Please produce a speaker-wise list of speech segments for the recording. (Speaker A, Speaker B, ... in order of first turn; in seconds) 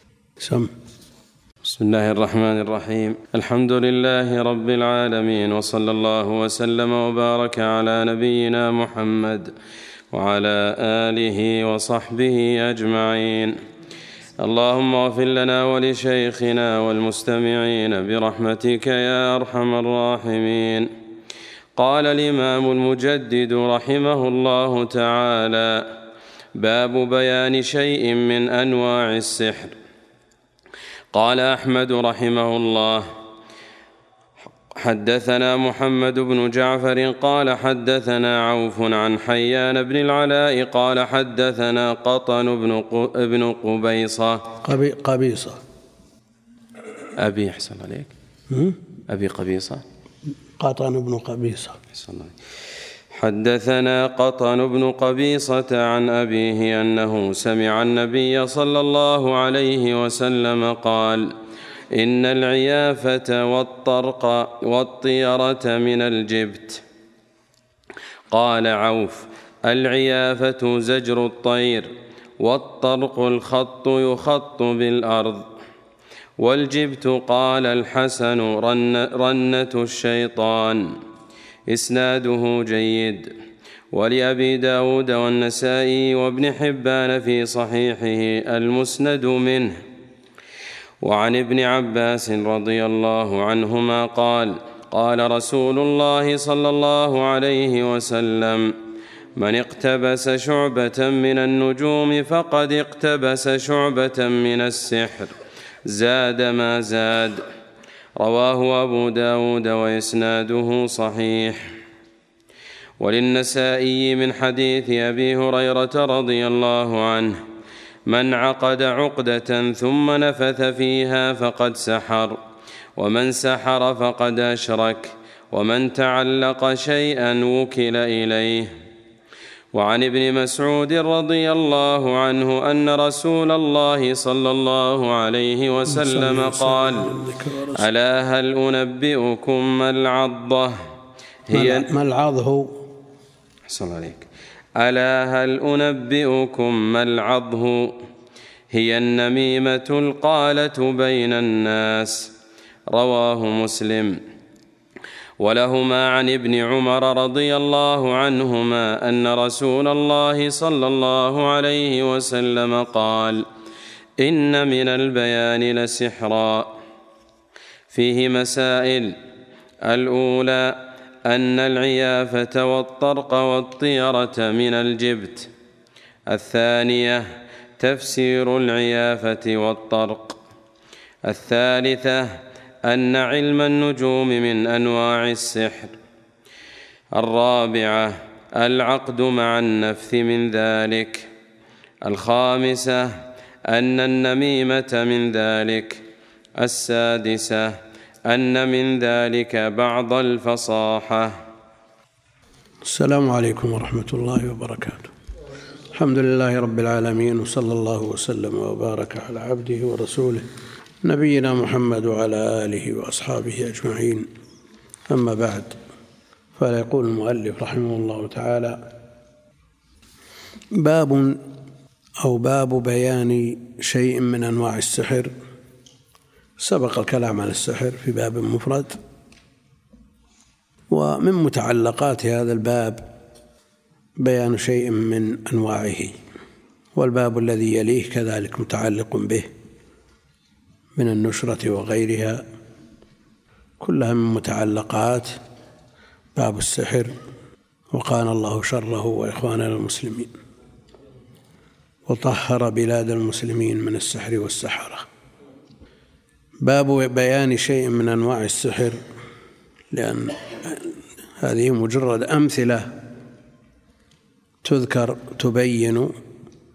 Speaker A: 0.4-0.7, 44.6-45.6, 48.5-48.8, 50.6-51.8, 135.9-137.8, 141.5-142.8, 202.8-205.1, 205.9-210.5, 211.0-214.3, 215.1-215.8, 216.6-218.8, 220.7-221.4, 222.2-225.3, 226.6-229.0, 230.9-233.0, 234.2-236.1, 237.0-239.5, 241.0-242.4, 243.8-245.4, 246.3-247.2, 247.9-250.3, 252.1-255.1, 256.6-259.0, 259.9-262.9, 264.6-266.1
Speaker B: 1.6-9.5, 10.1-13.6, 14.4-20.9, 21.8-25.9, 26.6-29.8, 31.1-33.1, 34.7-44.4, 47.2-48.1, 49.1-49.8, 51.9-52.4, 53.1-61.3, 61.9-66.8, 68.3-75.5, 76.4-81.0, 81.7-83.3, 83.9-89.8, 91.0-98.8, 99.4-105.3, 105.9-107.5, 108.2-111.7, 113.0-117.4, 118.1-122.4, 123.0-128.8, 129.7-137.1, 137.8-140.8, 141.5-141.9, 143.7-148.0, 148.7-152.3, 152.9-154.2, 155.4-163.5, 164.2-166.8, 167.9-169.2, 169.8-175.5, 176.3-180.4, 181.2-186.0, 187.1-191.3, 192.0-196.1, 196.6-201.4